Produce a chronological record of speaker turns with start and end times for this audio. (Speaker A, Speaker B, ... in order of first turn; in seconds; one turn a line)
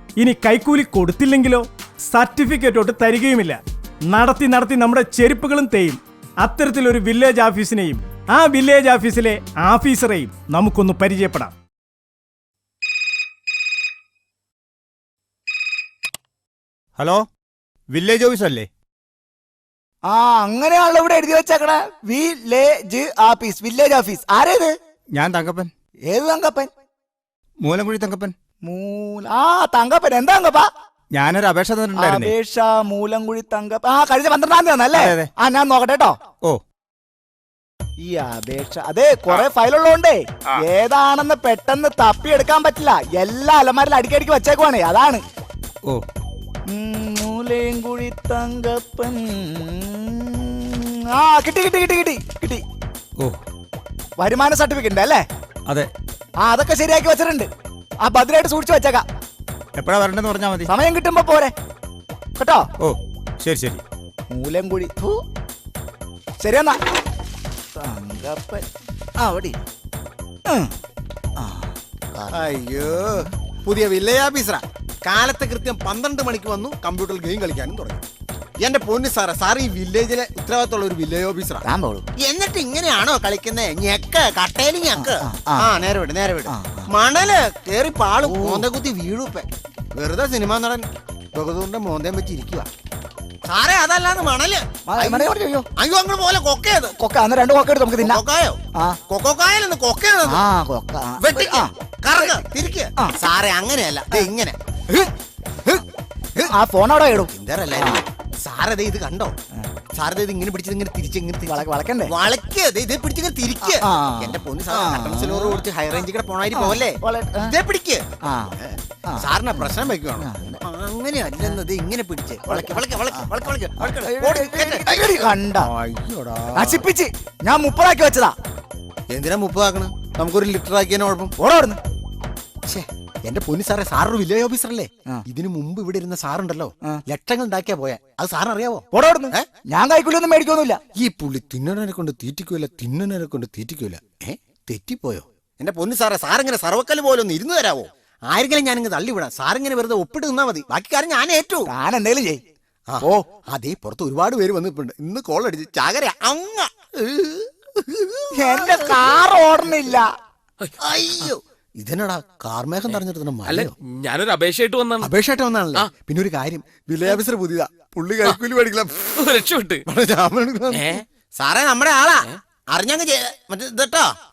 Speaker A: 0.2-11.5
Speaker B: 17.0-17.3
Speaker B: 17.9-18.7
Speaker C: 20.1-24.7
Speaker B: 25.1-25.7
Speaker C: 26.1-26.7
Speaker B: 27.6-28.3
Speaker C: 28.6-30.7
Speaker B: 31.1-32.3
Speaker C: 31.9-36.1
Speaker B: 35.0-35.3
Speaker C: 38.0-45.2
Speaker C: 46.7-52.6
Speaker C: 54.2-55.2
Speaker C: 56.4-57.5
Speaker C: 58.0-59.0
Speaker B: 59.7-60.7
Speaker C: 60.6-61.5
Speaker C: 62.4-62.6
Speaker B: 62.8-63.8
Speaker C: 64.3-65.2
Speaker C: 66.4-66.8
Speaker C: 67.8-68.6
Speaker C: 69.2-69.6
Speaker C: 71.4-72.5
Speaker D: 72.3-78.0
Speaker D: 78.6-81.6
Speaker C: 81.6-82.0
Speaker D: 82.2-92.7
Speaker C: 84.9-85.8
Speaker C: 86.5-86.9
Speaker C: 88.2-88.7
Speaker D: 93.4-97.0
Speaker C: 94.9-95.7
Speaker C: 97.0-98.2
Speaker D: 98.0-100.4
Speaker C: 100.2-101.7
Speaker D: 101.2-105.1
Speaker C: 106.4-108.0
Speaker D: 107.2-109.4
Speaker D: 109.9-118.1
Speaker C: 111.5-112.1
Speaker C: 113.7-115.6
Speaker C: 116.5-117.5
Speaker C: 118.2-118.6
Speaker D: 118.6-126.8
Speaker C: 119.1-120.6
Speaker C: 122.5-123.3
Speaker C: 123.8-125.7
Speaker C: 126.5-128.3
Speaker D: 129.1-131.3
Speaker C: 131.4-131.8
Speaker D: 132.7-139.4
Speaker C: 138.9-140.8
Speaker D: 141.0-151.7
Speaker C: 151.7-152.4
Speaker D: 152.9-159.2
Speaker C: 158.4-160.1
Speaker E: 160.6-161.3
Speaker D: 160.8-163.7
Speaker E: 162.9-165.1
Speaker D: 165.0-169.2
Speaker E: 169.2-169.8
Speaker D: 169.8-174.1
Speaker E: 170.7-171.0